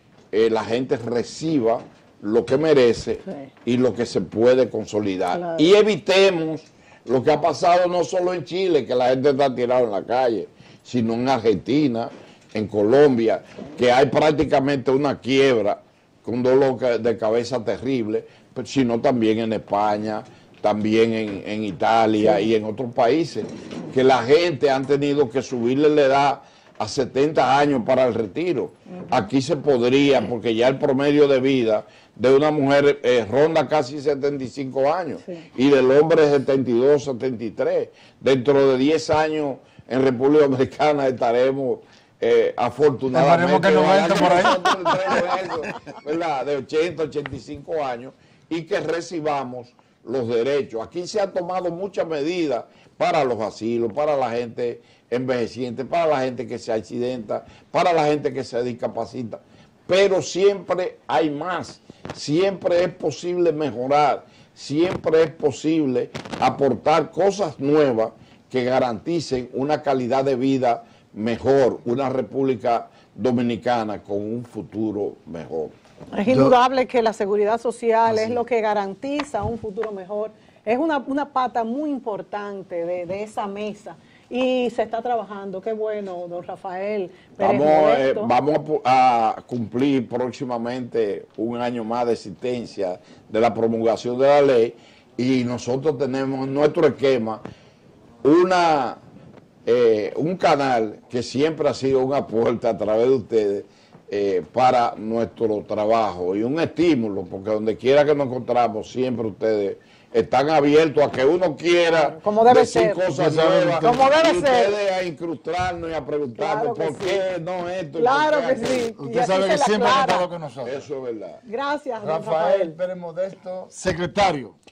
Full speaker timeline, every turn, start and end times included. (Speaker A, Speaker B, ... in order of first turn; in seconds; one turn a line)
Speaker A: 0.3-75.7
Speaker B: 5.3-5.7
Speaker C: 43.1-45.4
Speaker B: 76.1-88.3
Speaker C: 76.3-76.5
Speaker A: 87.4-97.4
Speaker A: 98.2-99.0
Speaker A: 99.6-118.9
Speaker B: 111.9-113.0
Speaker C: 113.1-114.0
Speaker B: 113.8-114.8
Speaker B: 116.3-117.2
Speaker B: 118.0-120.2
Speaker C: 119.0-120.9
Speaker A: 120.6-121.4
Speaker B: 121.5-122.8
Speaker C: 122.0-124.6